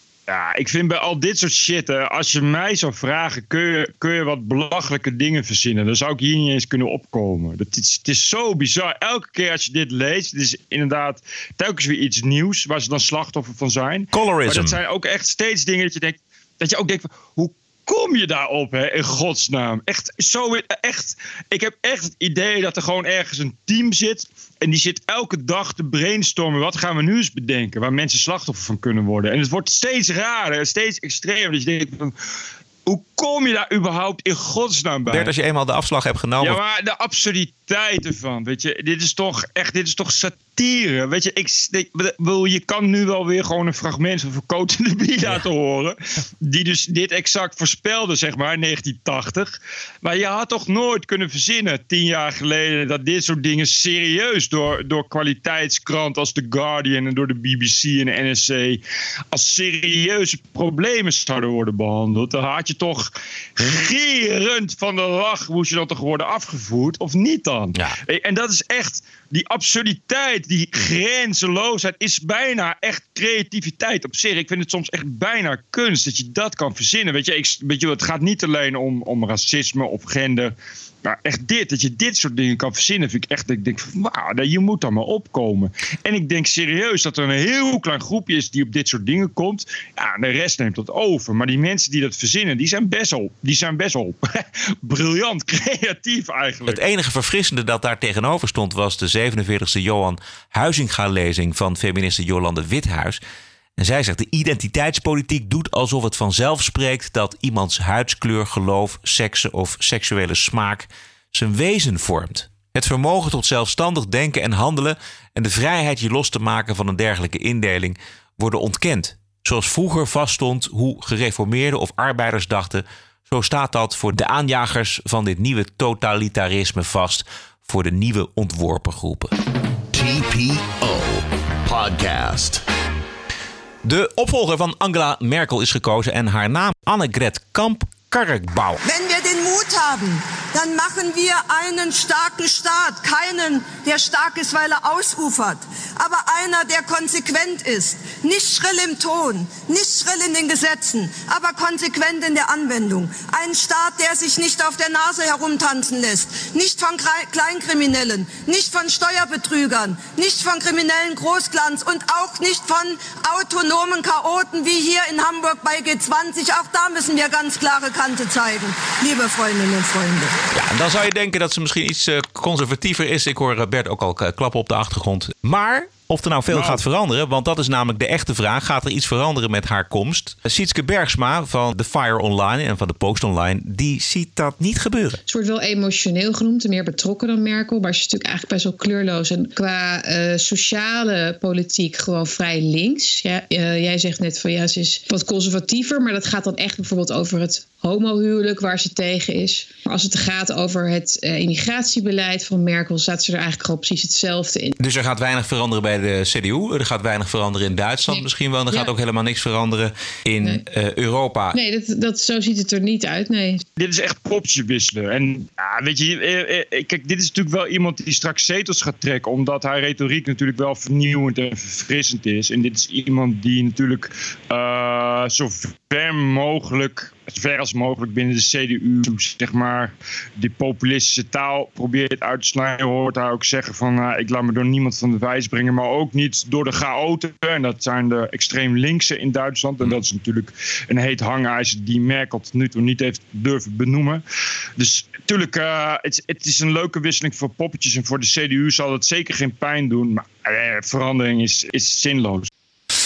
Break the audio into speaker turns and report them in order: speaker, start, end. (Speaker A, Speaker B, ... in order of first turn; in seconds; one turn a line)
Speaker A: 0.3-32.1
Speaker B: 14.1-14.8
Speaker A: 32.9-35.3
Speaker B: 35.1-36.6
Speaker A: 36.4-58.8
Speaker A: 59.3-80.5
Speaker A: 81.0-96.8
Speaker B: 96.7-103.2
Speaker B: 103.8-129.3
Speaker C: 129.9-132.6
Speaker B: 133.8-138.8
Speaker D: 138.8-170.3
Speaker B: 170.5-185.2
Speaker A: 176.5-176.8
Speaker E: 185.3-204.8
Speaker B: 204.8-211.6
Speaker E: 208.1-208.9
Speaker E: 211.5-213.6
Speaker A: 213.8-244.2
Speaker A: 244.8-252.5